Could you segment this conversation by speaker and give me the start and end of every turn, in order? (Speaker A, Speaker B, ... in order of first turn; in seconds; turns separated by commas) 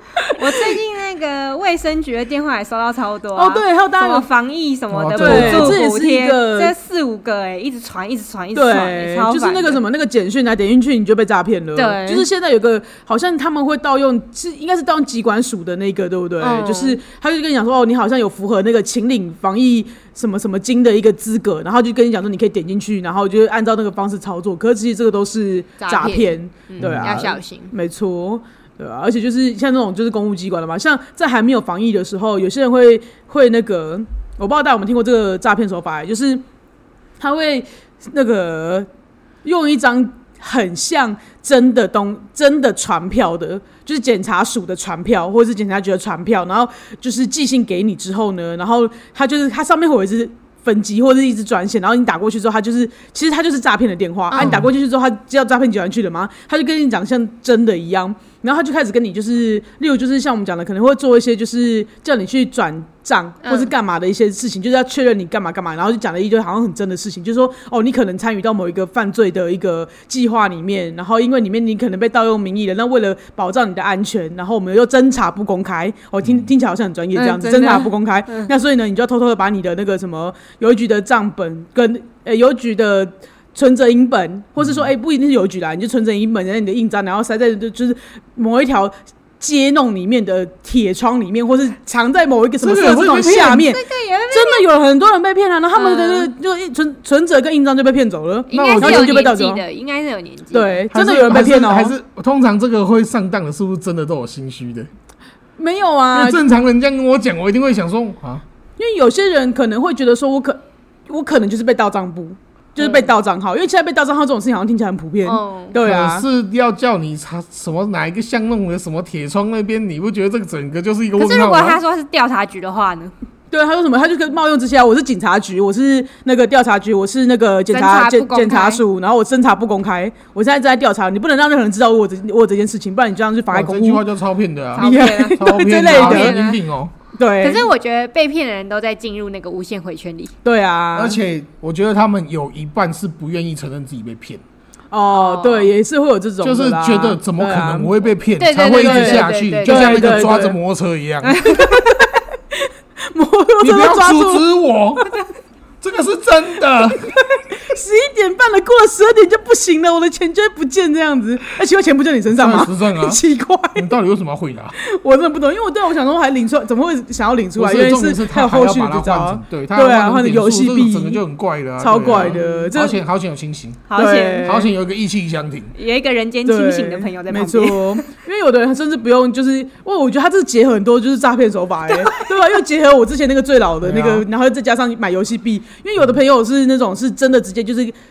Speaker A: 0.2-0.8, Speaker B: 0.3-9.8, Speaker A: 3.4-4.3, Speaker C: 4.9-5.8, Speaker A: 5.2-6.8, Speaker A: 8.5-36.4, Speaker B: 11.8-12.3, Speaker B: 16.4-17.0, Speaker B: 25.8-27.7, Speaker C: 26.8-27.3, Speaker A: 37.2-38.9, Speaker A: 39.4-99.6, Speaker B: 54.3-54.7, Speaker C: 54.4-54.7, Speaker B: 63.4-63.7, Speaker B: 77.2-78.5, Speaker C: 84.6-84.9, Speaker C: 92.6-93.6, Speaker B: 93.4-94.6, Speaker B: 95.8-96.3, Speaker B: 98.5-100.8, Speaker C: 98.5-99.2, Speaker A: 100.5-102.0, Speaker C: 100.9-104.9, Speaker A: 105.6-106.4, Speaker C: 106.1-108.5, Speaker A: 108.8-116.3, Speaker B: 112.8-113.1, Speaker B: 115.2-115.8, Speaker C: 115.8-121.8, Speaker B: 121.2-123.1, Speaker A: 123.5-134.1, Speaker B: 127.7-128.8, Speaker C: 133.5-136.9, Speaker B: 134.8-136.6, Speaker A: 134.8-136.5, Speaker A: 137.2-137.7, Speaker B: 137.4-140.3, Speaker A: 140.4-141.2, Speaker C: 140.9-144.4, Speaker A: 144.9-147.9, Speaker B: 145.1-145.7, Speaker C: 146.4-151.6, Speaker B: 148.4-150.3, Speaker A: 148.8-150.6, Speaker B: 151.2-152.1, Speaker A: 151.5-154.5, Speaker C: 153.6-155.1, Speaker C: 155.8-157.1, Speaker A: 157.6-163.9, Speaker C: 162.3-163.2, Speaker C: 163.8-164.8, Speaker A: 164.8-171.2, Speaker C: 167.6-173.9, Speaker A: 171.8-173.0, Speaker B: 172.1-172.7, Speaker B: 173.9-174.6, Speaker A: 173.9-174.7, Speaker C: 174.4-175.7, Speaker B: 175.8-178.0, Speaker A: 176.5-187.9, Speaker B: 181.9-182.3, Speaker C: 183.8-184.3